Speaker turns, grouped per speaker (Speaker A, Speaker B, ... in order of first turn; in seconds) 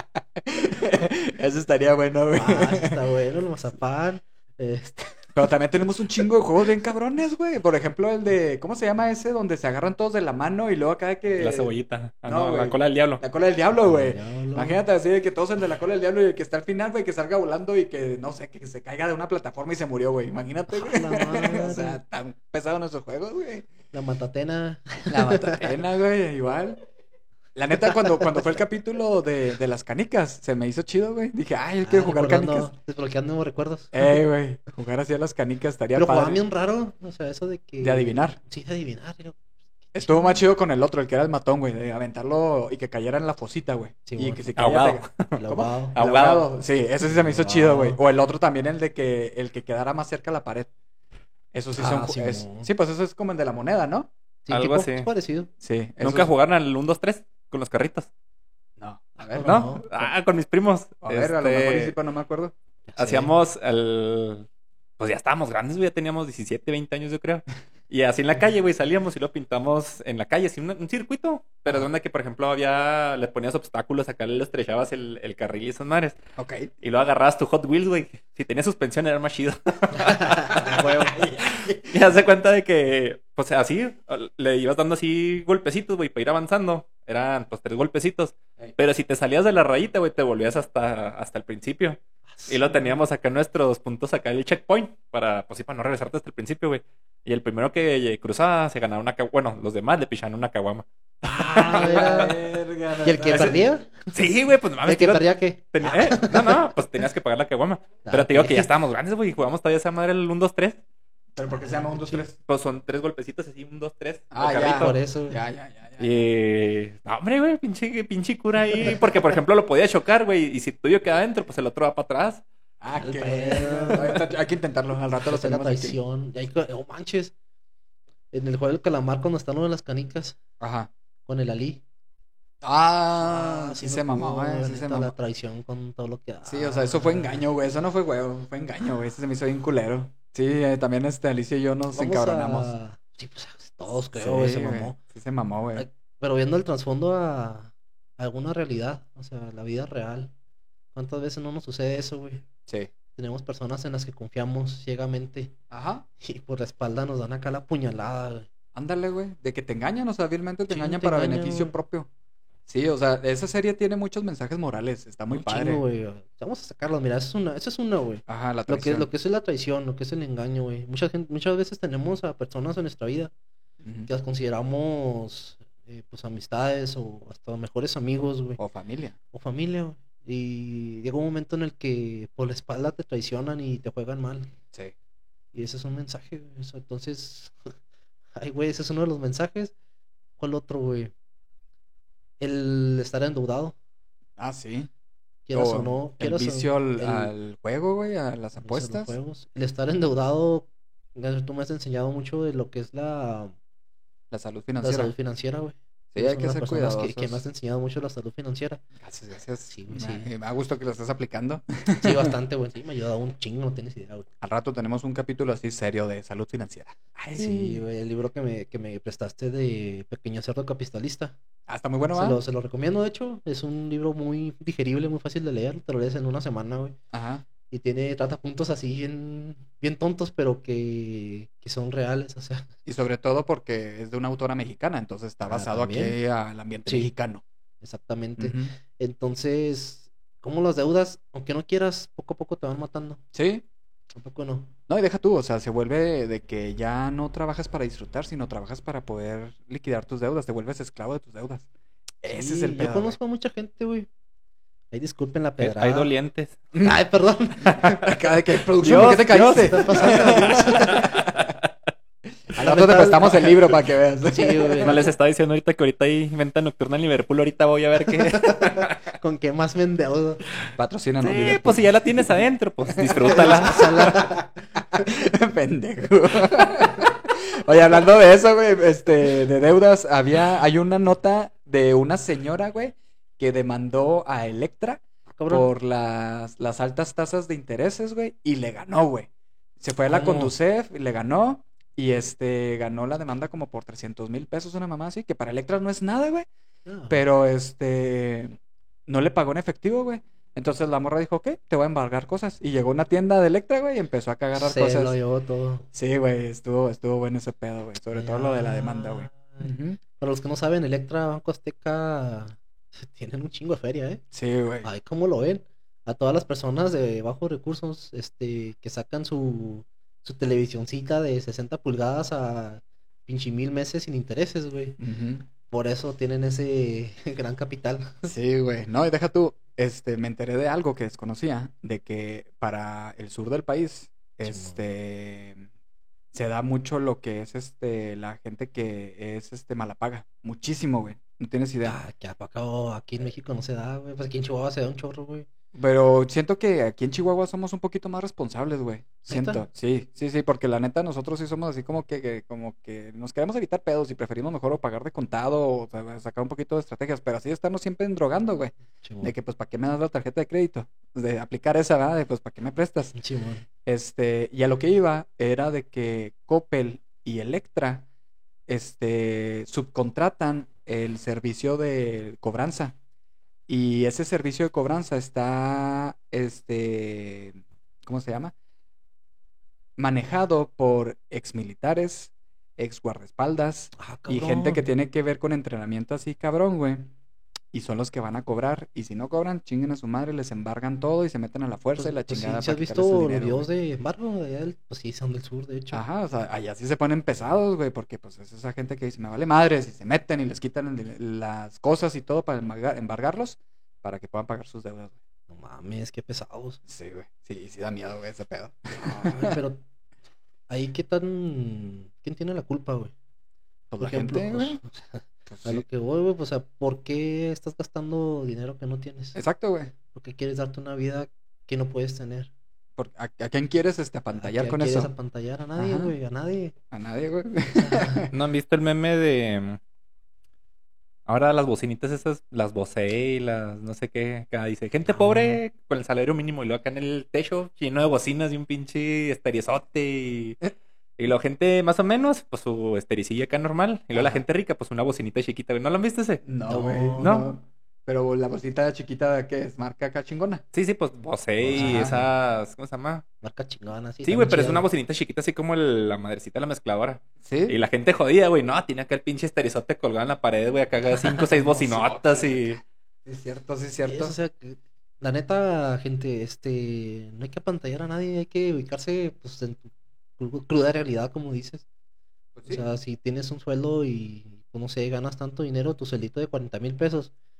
Speaker A: 0.4-3.0, 5.3-11.7, 12.2-23.7, 25.1-26.8, 27.5-32.7, 33.9-36.4, 37.8-38.4, 39.9-50.7, 51.5-54.1, 55.6-56.3, 58.8-59.6, 61.0-62.5, 76.4-76.7, 80.5-82.0, 101.5-103.6, 111.3-112.3, 114.3-116.3, 122.8-126.0, 130.6-130.9, 132.6-135.1, 136.4-142.7, 144.2-145.9, 155.7-156.1, 158.7-162.1, 162.7-165.8, 168.3-169.1, 173.8-174.1, 178.6-179.1, 194.4-194.9, 195.5-199.2, 204.3-205.1, 206.1-207.4, 209.0-212.3, 214.4-217.8, 221.7-222.4, 227.1-227.4, 232.8-237.4, 238.4-238.7, 243.3-243.6, 244.9-251.7, 252.2-253.2, 257.6-261.5, 262.5-265.0, 270.8-271.8, 273.0-289.3, 289.8-296.5, 297.1-305.1, 305.9-310.0, 314.3-314.9, 325.0-325.4, 328.2-335.7, 336.3-342.0, 345.7-363.1, 363.8-368.1, 368.7-372.9, 373.7-378.5, 380.0-387.1, 387.7-393.7, 395.9-405.1, 406.9-409.6, 413.9-414.8, 415.5-415.8, 419.3-419.9, 423.0-425.1, 425.8-426.1, 426.9-428.3, 446.4-450.6, 451.6-452.2, 457.4-457.8, 461.4-464.3, 472.5-472.9
Speaker B: 2.3-5.4, 13.8-14.8, 20.7-22.0, 23.9-25.7, 31.8-34.1, 35.9-39.4, 39.9-40.4, 44.0-44.4, 45.4-46.0, 47.0-48.0, 51.7-52.7, 54.5-55.5, 59.2-59.9, 62.9-63.3, 80.1-81.2, 92.4-93.0, 101.2-102.3, 103.0-104.0, 104.8-106.8, 108.0-108.7, 111.9-112.2, 114.4-115.4, 123.0-124.2, 125.1-127.3, 128.3-130.4, 131.2-131.8, 133.2-137.4, 141.9-145.0, 145.7-150.3, 150.9-152.4, 153.2-155.5, 156.2-158.5, 160.7-161.7, 165.3-173.3, 174.1-178.6, 179.3-184.5, 185.5-187.5, 188.3-189.7, 190.4-191.1, 192.4-193.8, 195.5-197.3, 198.6-203.5, 204.8-208.8, 209.7-210.3, 212.0-214.3, 217.3-221.3, 222.1-227.0, 227.7-232.7, 235.5-236.2, 236.8-237.1, 237.8-243.2, 244.1-244.7, 252.2-254.1, 254.9-256.1, 256.7-258.1, 258.8-261.1, 262.6-265.1, 268.4-270.4, 273.3-275.0, 285.4-285.7, 290.1-290.5, 296.9-297.2, 304.5-305.9, 308.1-314.2, 314.8-325.0, 325.7-328.3, 334.4-334.8, 341.8-345.5, 349.3-349.6, 359.0-359.3, 363.1-363.6, 384.0-384.9, 392.0-396.0, 405.5-406.8, 409.0-409.8, 410.7-413.1, 414.0-419.4, 420.1-422.5, 424.3-426.7, 427.7-428.3, 435.1-435.6, 444.1-444.4, 446.7-447.5, 451.7-452.3, 453.4-454.8, 464.0-471.8, 472.7-477.3
Speaker C: 11.4-13.2, 44.6-46.5, 54.5-55.1, 56.0-58.1, 59.4-61.9, 63.0-64.5, 65.0-76.2, 76.8-102.3, 104.1-110.8, 112.4-115.0, 116.0-122.4, 255.6-256.5, 258.8-261.5, 264.8-268.9, 271.2-273.8, 428.3-429.8, 431.3-446.4, 447.2-447.5, 450.7-453.2, 454.2-462.8